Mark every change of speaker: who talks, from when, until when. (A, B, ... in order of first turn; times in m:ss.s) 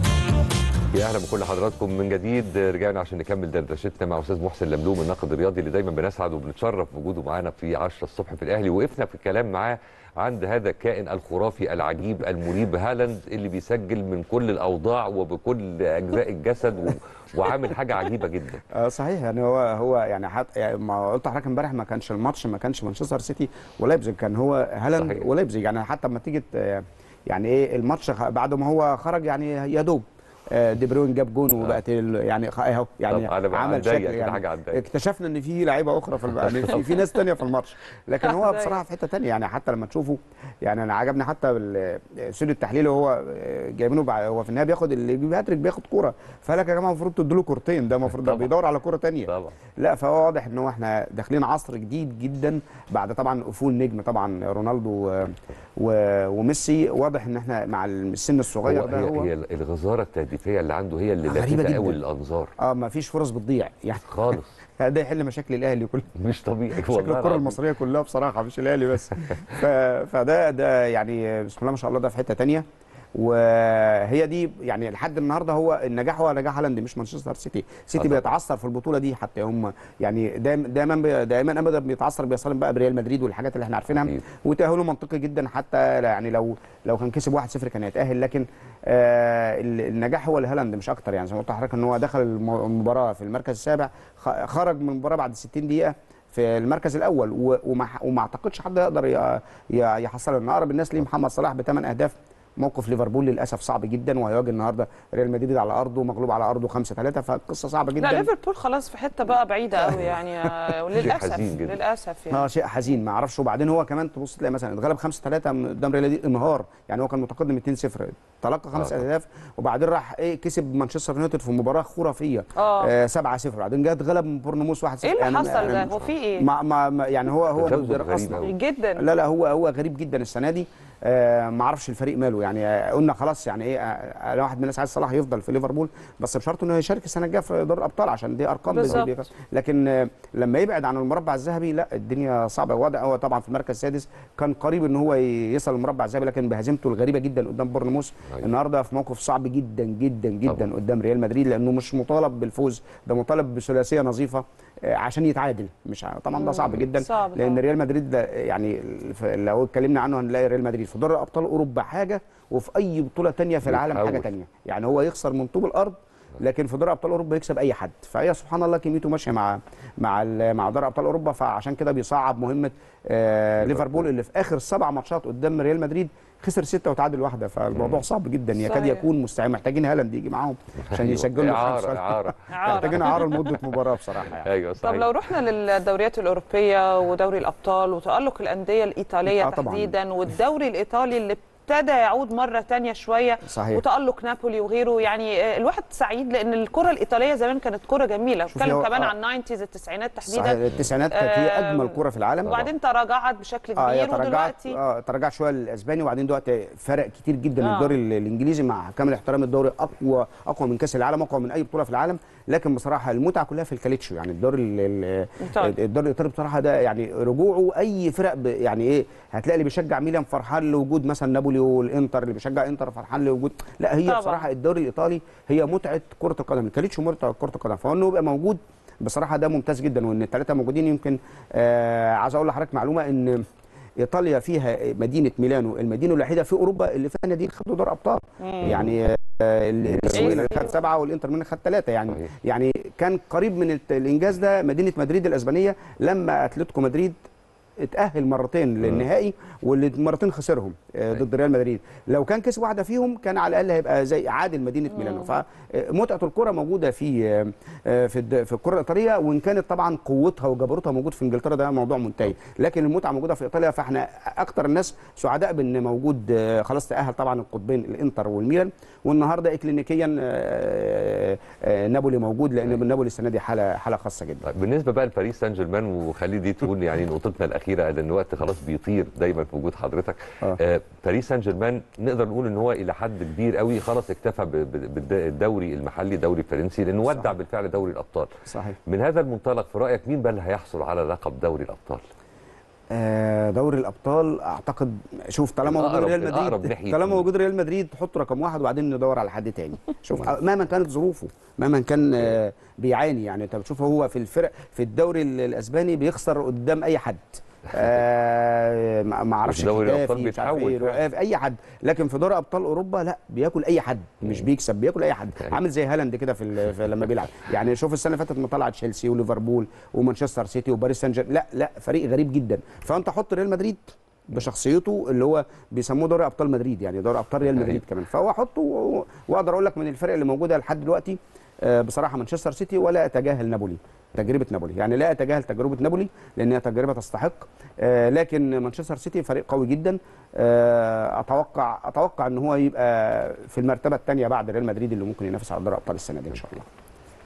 0:00.9-0:18.6 A
0:18.7-0:59.3 B
0:25.0-0:25.2 A
0:33.1-0:34.8 A
0:36.4-0:36.9 A
0:48.2-0:48.5 A
0:49.3-0:49.5 A
0:58.6-1:02.5 A
1:01.3-1:02.0 B
1:02.6-1:04.0 B
1:04.1-1:04.5 A
1:04.8-1:06.1 B
1:06.2-1:07.6 A
1:06.8-1:48.3 B
1:18.0-1:18.2 A
1:48.0-1:52.4 C
1:51.0-1:51.8 A
1:52.3-3:04.5 B
2:02.6-2:02.9 C
2:05.0-2:06.5 C
2:07.5-2:08.5 A
2:08.4-2:09.0 C
2:18.7-2:19.1 C
2:36.4-2:37.6 C
2:43.7-2:44.3 A
2:53.6-2:54.0 A
2:57.8-2:58.0 A
2:58.6-2:59.0 C
3:00.9-3:03.2 A
3:02.5-3:03.5 C
3:04.4-3:05.1 A
3:04.8-3:24.8 C
3:09.3-3:10.0 B
3:13.4-3:13.8 B
3:18.5-3:19.1 B
3:20.3-3:22.7 B
3:23.8-3:53.4 B
3:27.6-3:28.0 C
3:35.4-3:35.8 C
3:44.1-3:44.4 C
3:54.0-4:07.2 B
3:58.4-3:58.8 C
3:58.6-3:58.9 A
4:00.1-4:00.7 C
4:07.8-4:34.5 B
4:34.4-4:48.3 A
4:48.5-4:48.8 B
4:48.9-4:52.0 A
4:52.9-5:46.7 B
4:55.7-4:57.3 A
5:09.4-5:11.0 A